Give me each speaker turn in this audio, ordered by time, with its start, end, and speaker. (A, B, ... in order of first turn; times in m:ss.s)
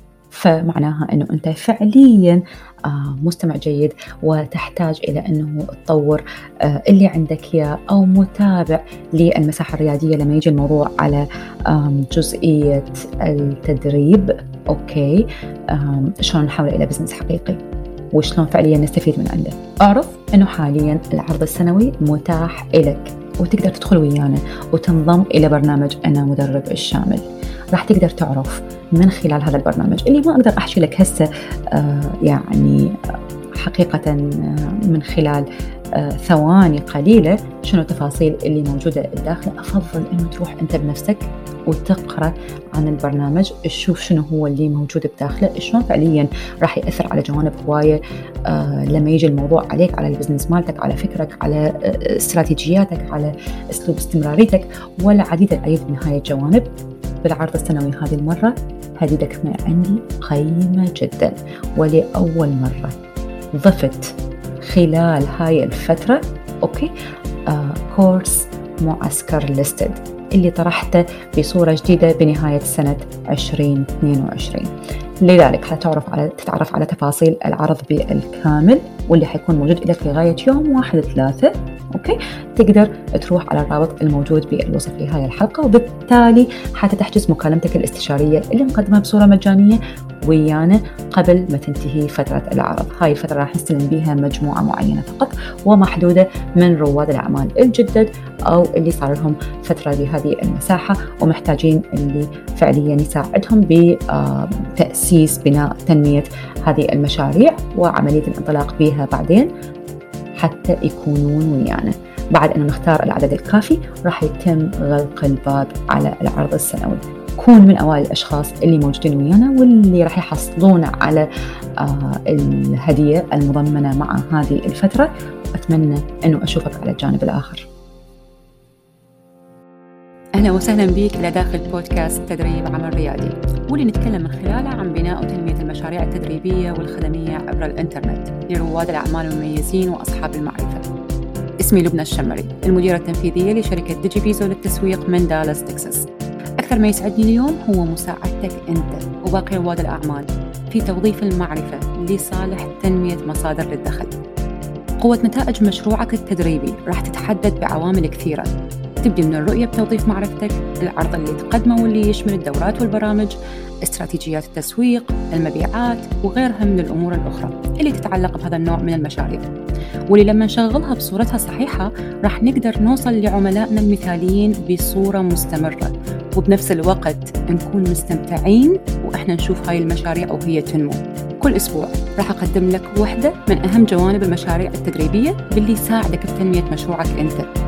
0:00.3-0:17.6 A
0:18.1-0:32.9 A
0:33.6-0:35.4 A
0:36.0-0:56.7 A
0:57.2-1:02.9 A
1:03.6-1:06.9 A
1:07.5-1:14.7 A
1:15.2-1:49.5 A
1:50.4-2:01.2 A
2:01.8-2:07.7 A
2:10.4-2:20.8 A
2:21.6-2:26.0 A
2:26.6-2:34.2 A
2:35.0-2:38.5 A
2:39.0-2:49.5 A
2:50.1-3:07.5 A